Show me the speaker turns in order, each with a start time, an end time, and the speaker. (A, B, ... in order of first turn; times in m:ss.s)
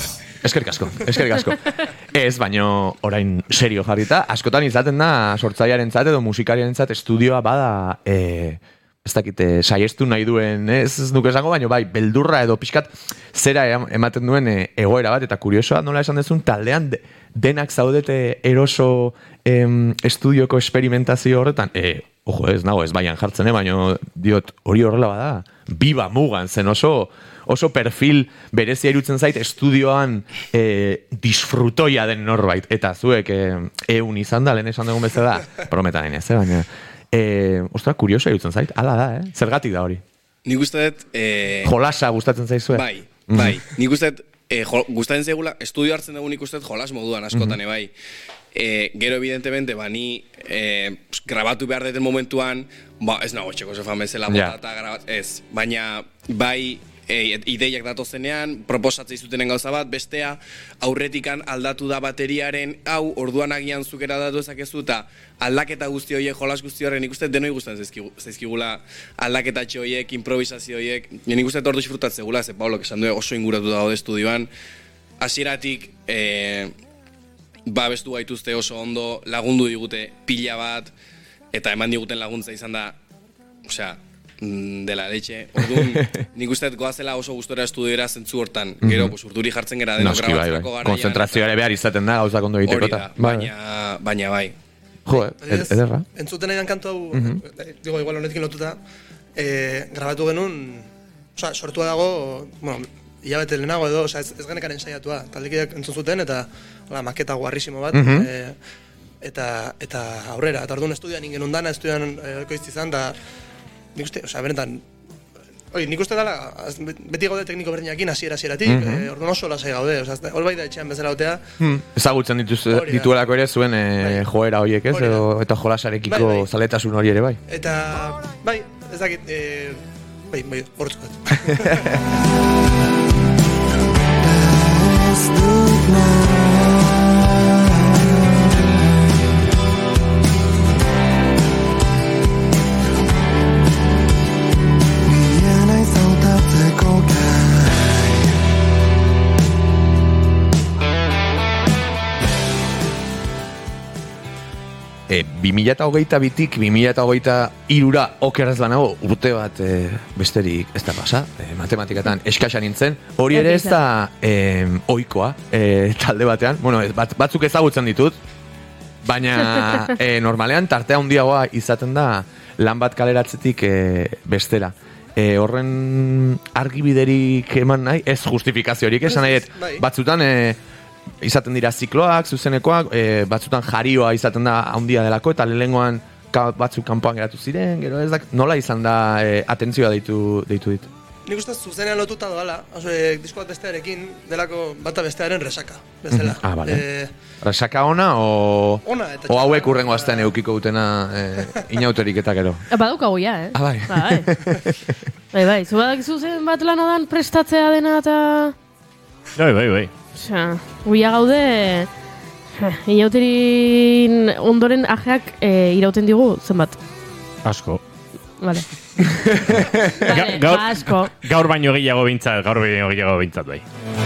0:00.4-0:40.0 A
0:40.4-0:41.7 B
0:41.6-0:43.6 A
0:42.8-0:47.9 B
0:47.3-0:47.6 A
0:48.5-1:14.5 B
0:54.3-0:54.6 A
1:15.2-1:16.7 B
1:17.7-1:20.9 B
1:21.5-1:23.0 B
1:23.7-1:31.5 B
1:25.8-1:26.1 A
1:28.8-1:29.1 A
1:30.0-1:33.5 A
1:32.7-1:34.6 B
1:35.1-1:36.1 A
1:35.1-1:38.8 C
1:37.1-1:37.4 A
1:39.4-1:48.6 C
1:47.9-1:48.3 A
1:49.2-1:53.2 C
1:54.0-1:54.8 C
1:55.7-2:01.4 C
1:58.6-1:59.1 A
2:01.6-2:07.4 A
2:02.7-2:03.1 C
2:04.0-2:04.2 C
2:04.9-2:05.2 C
2:06.1-2:06.5 C
2:07.5-2:12.1 C
2:14.2-2:19.1 D
2:25.0-2:28.3 D
2:35.1-2:48.2 A
2:43.3-2:43.7 E
2:49.0-3:00.6 A
2:59.1-2:59.8 C
3:01.2-3:10.9 A
3:11.3-3:17.1 C
3:16.1-3:16.8 A
3:17.4-3:22.6 A
3:18.8-3:20.3 C
3:22.7-3:24.3 E
3:23.5-3:25.0 A
3:25.3-3:28.6 E
3:29.4-3:29.9 F
3:30.2-3:31.9 E
3:32.6-3:36.8 E
3:37.4-3:37.8 F
3:38.4-3:38.7 E
3:39.2-3:39.9 A
3:39.5-3:43.6 F
3:40.0-3:41.1 E